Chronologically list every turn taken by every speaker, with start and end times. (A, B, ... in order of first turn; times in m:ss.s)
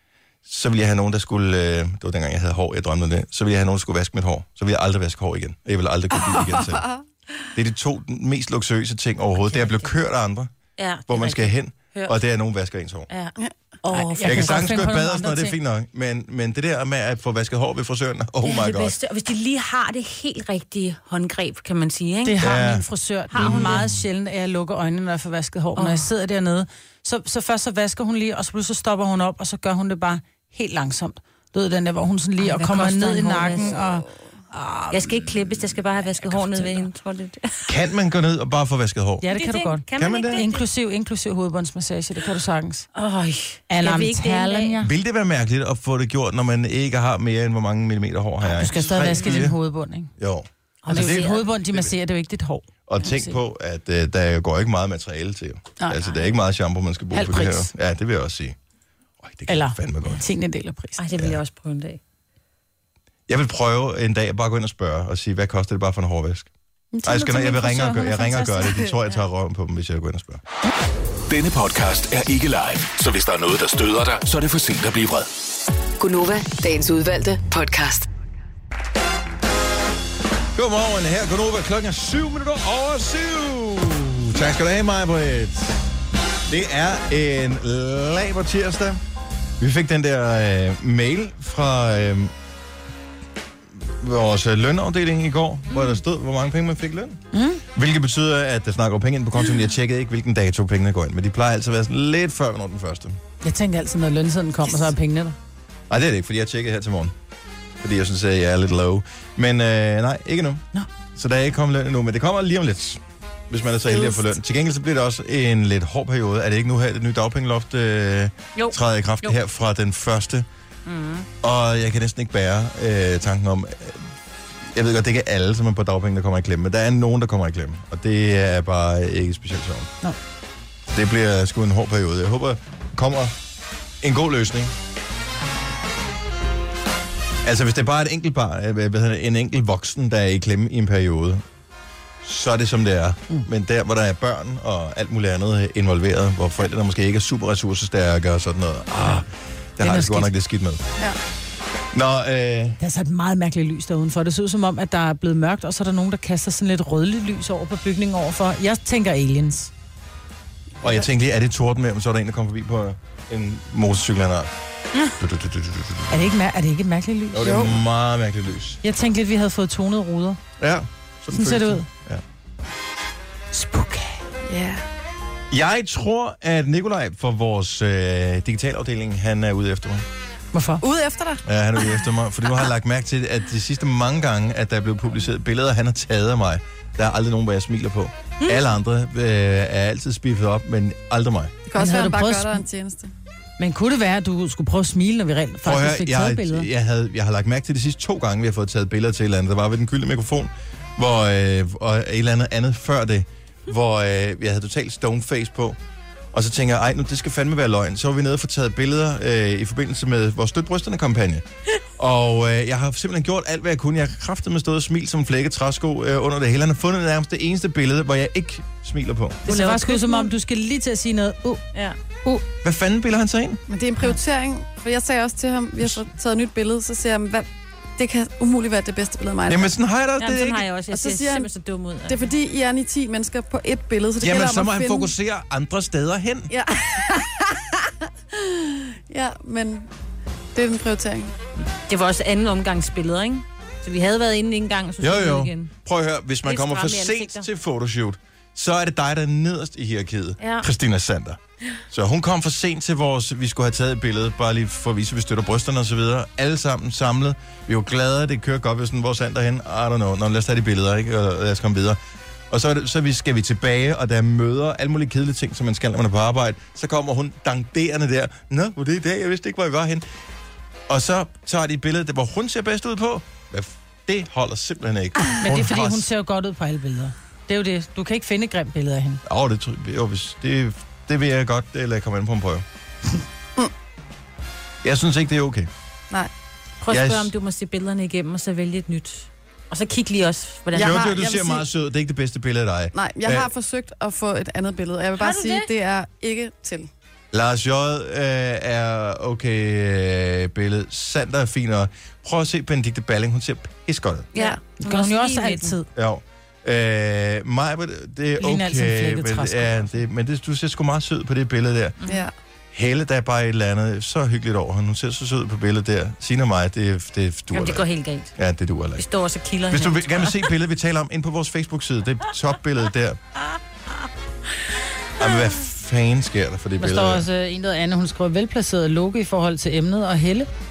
0:00.4-0:06.9 A
0:06.2-0:07.0 B
0:07.5-0:10.5 A
0:09.5-0:09.8 C
0:10.8-0:12.2 C
0:11.1-0:13.1 A
0:13.1-0:14.7 C
0:13.8-0:15.6 D
0:14.2-0:19.0 A
0:18.4-0:22.5 C
0:22.2-0:35.3 D
0:22.4-0:24.0 A
0:23.3-0:23.9 C
0:25.8-0:26.1 C
0:32.4-0:33.8 C
0:34.9-0:37.7 C
0:36.0-0:36.9 D
0:37.7-0:39.2 A
0:39.2-0:42.9 D
0:39.3-0:40.6 C
0:40.0-0:40.4 A
0:42.9-0:44.8 C
0:43.7-0:44.9 D
0:44.8-0:49.6 A
0:48.4-0:50.1 D
0:49.0-0:49.4 C
0:50.2-0:51.9 A
0:50.8-0:51.4 C
0:50.9-0:53.4 D
0:52.9-0:58.6 A
0:55.8-0:56.2 D
0:57.1-0:57.7 D
0:59.2-1:00.2 A
0:59.5-1:01.0 D
1:01.0-1:02.0 C
1:03.3-1:06.5 A
1:06.9-1:08.6 D
1:07.0-1:10.4 A
1:11.3-1:15.3 E
1:16.0-1:18.1 F
1:20.5-1:25.9 A
1:26.5-1:29.0 A
1:29.6-1:32.3 A
1:33.8-1:43.2 A
1:37.3-1:37.6 D
1:43.4-1:45.4 D
1:45.9-1:47.1 A
1:47.8-2:00.5 A
1:58.6-1:59.3 C
2:00.8-2:01.3 C
2:01.4-2:04.1 A
2:04.6-2:09.9 A
2:10.9-2:13.3 A
2:14.0-2:14.7 A
2:17.4-2:21.4 A
2:22.2-2:30.9 A
2:29.8-2:30.3 D
2:31.9-2:32.8 A
2:32.8-2:39.7 D
2:40.8-2:44.5 A
2:45.2-2:46.1 A
2:46.1-2:47.7 D
2:47.3-2:48.8 A
2:47.4-2:47.7 B
2:48.8-2:50.4 D
2:50.6-2:52.2 A
2:51.3-2:51.9 D
2:53.5-2:54.2 D
2:54.5-2:54.8 B
2:55.5-3:00.0 A
3:00.5-3:00.8 D
3:00.8-3:01.4 B
3:01.4-3:11.5 A
3:11.6-3:13.1 B
3:11.7-3:12.6 D
3:13.6-3:16.7 D
3:15.6-3:25.8 A
3:26.3-3:31.4 A
3:32.0-3:39.4 A
3:39.4-3:40.3 C
3:39.4-3:41.6 D
3:42.6-3:43.6 A
3:43.7-3:49.7 B
3:49.5-3:50.7 A
3:50.2-3:52.3 C
3:50.9-3:51.5 B
3:52.1-3:55.1 B
3:54.2-3:56.5 A
3:56.5-3:59.9 B
4:00.5-4:01.3 B
4:01.9-4:05.7 C
4:05.0-4:11.4 A
4:06.4-4:07.5 C
4:10.4-4:10.7 C
4:11.9-4:22.0 A
4:22.5-4:30.0 A
4:30.9-4:36.1 A
4:35.4-4:39.2 D
4:39.2-4:42.6 A
4:44.8-4:45.7 A
4:46.8-4:51.2 C
4:46.9-4:47.3 A
4:50.7-4:51.6 B
4:50.7-4:53.5 A
4:52.9-4:56.9 B
4:55.1-4:55.7 C
4:57.3-5:04.3 A
5:04.3-5:05.8 C
5:04.8-5:05.9 D
5:05.9-5:12.0 A
5:08.4-5:09.9 D
5:12.7-5:19.0 A
5:17.5-5:18.3 C
5:19.0-5:20.5 C
5:19.7-5:23.2 A
5:25.2-5:27.2 A
5:26.8-5:30.5 D